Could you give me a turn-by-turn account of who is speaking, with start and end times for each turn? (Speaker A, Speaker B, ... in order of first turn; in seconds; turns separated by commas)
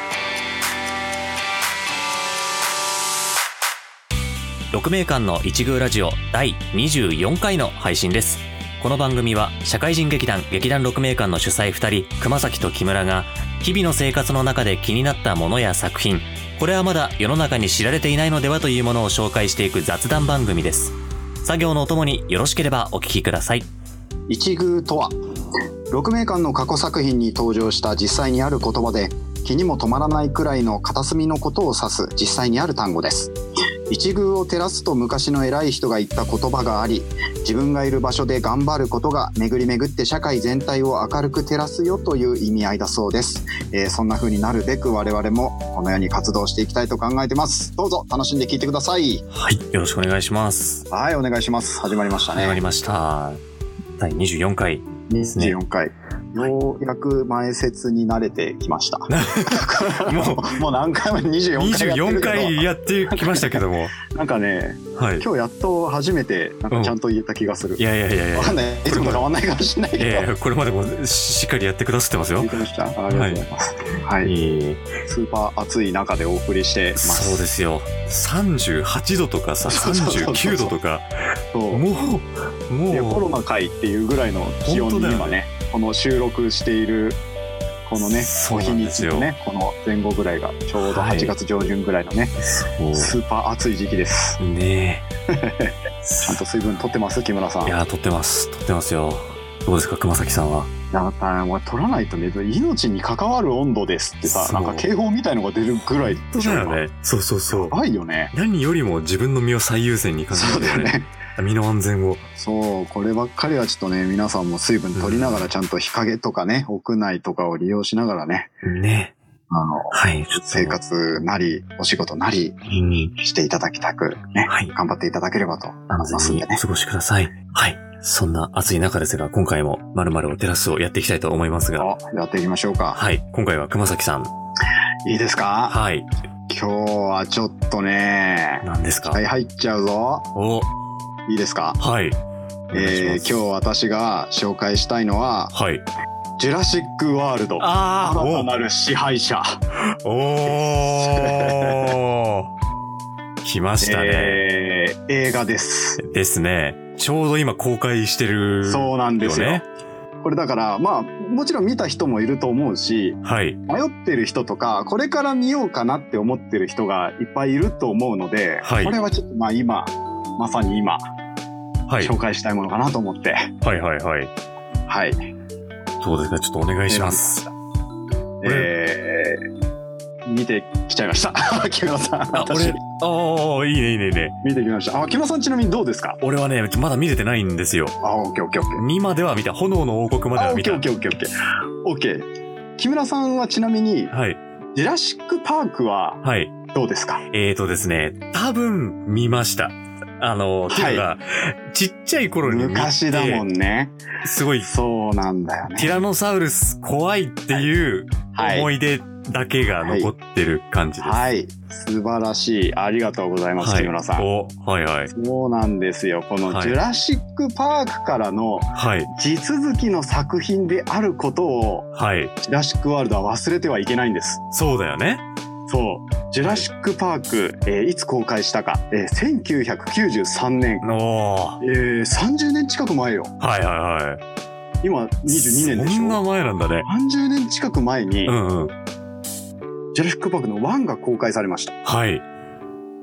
Speaker A: 4.7-23.7, Speaker B: 24.3-25.1, Speaker B: 25.9-33.3, Speaker B: 33.9-49.2, Speaker A: 49.3-50.9, Speaker B: 50.9-52.6, Speaker A: 52.2-53.4, Speaker A: 54.0-55.5, Speaker B: 55.1-67.8, Speaker A: 59.1-60.5, Speaker A: 61.5-63.9, Speaker A: 64.9-65.2, Speaker A: 67.8-69.3, Speaker B: 68.3-70.3, Speaker A: 70.0-72.5, Speaker B: 72.4-74.3, Speaker A: 73.1-73.4, Speaker A: 74.2-74.9, Speaker B: 75.0-77.4, Speaker A: 76.9-81.1, Speaker B: 79.7-80.7, Speaker B: 81.5-81.8, Speaker A: 81.7-83.3, Speaker B: 82.9-87.2, Speaker A: 84.6-85.4, Speaker B: 87.8-92.4, Speaker A: 88.0-89.3, Speaker A: 90.8-91.3, Speaker A: 92.4-93.1, Speaker B: 92.9-94.4, Speaker A: 94.4-95.0, Speaker B: 95.3-97.8, Speaker A: 96.0-96.4, Speaker A: 97.6-100.7, Speaker B: 100.9-106.8, Speaker A: 104.2-104.9, Speaker A: 106.0-107.8, Speaker B: 107.5-108.3, Speaker A: 108.3-112.2, Speaker B: 110.3-111.1, Speaker B: 112.4-118.5, Speaker A: 114.9-115.5, Speaker A: 118.6-119.1, Speaker B: 119.5-122.6, Speaker A: 119.9-120.8, Speaker A: 122.7-123.1, Speaker B: 123.1-126.6, Speaker A: 124.5-124.7, Speaker A: 125.9-131.9, Speaker B: 131.8-133.0, Speaker A: 132.9-134.3, Speaker B: 135.1-135.8, Speaker A: 135.7-136.1, Speaker B: 136.5-140.3, Speaker A: 138.6-139.2, Speaker A: 140.3-140.7, Speaker B: 141.3-141.8, Speaker A: 141.8-143.3, Speaker B: 142.7-145.5, Speaker A: 145.5-145.8, Speaker B: 146.4-149.6, Speaker A: 147.6-148.5, Speaker A: 149.8-152.5, Speaker B: 150.6-151.9, Speaker A: 153.4-154.4, Speaker B: 153.8-156.0, Speaker A: 156.0-159.6, Speaker B: 158.6-159.6, Speaker B: 160.2-171.0, Speaker A: 163.2-163.6, Speaker A: 168.6-168.9, Speaker A: 171.9-172.1, Speaker B: 172.0-173.5, Speaker A: 173.6-174.3, Speaker B: 174.9-175.2, Speaker A: 176.0-177.4, Speaker B: 176.9-177.5, Speaker B: 178.4-179.4, Speaker A: 178.4-178.7, Speaker B: 180.2-182.8, Speaker A: 182.3-184.3, Speaker B: 184.4-186.2, Speaker A: 186.2-187.9, Speaker B: 188.0-188.8, Speaker A: 188.8-190.8, Speaker B: 190.3-191.3, Speaker B: 191.8-192.2, Speaker B: 192.8-194.1, Speaker A: 194.1-194.4, Speaker B: 194.7-197.2, Speaker A: 196.2-196.5, Speaker A: 197.3-203.4, Speaker B: 200.7-201.1, Speaker B: 202.4-203.9, Speaker A: 204.2-204.7, Speaker B: 204.6-205.9, Speaker A: 205.7-211.2, Speaker B: 208.3-208.7, Speaker B: 209.8-210.1, Speaker B: 211.0-214.3, Speaker A: 213.6-215.1, Speaker B: 215.1-221.9, Speaker A: 216.5-216.8, Speaker A: 218.8-219.1, Speaker A: 221.9-222.3, Speaker B: 222.4-224.4, Speaker A: 224.5-225.2, Speaker B: 225.7-230.8, Speaker A: 230.8-231.6, Speaker B: 231.6-233.3, Speaker A: 233.4-234.2, Speaker B: 234.8-236.2, Speaker A: 235.3-236.9, Speaker B: 236.8-238.4, Speaker A: 238.2-238.7, Speaker B: 239.9-241.8, Speaker A: 241.8-242.2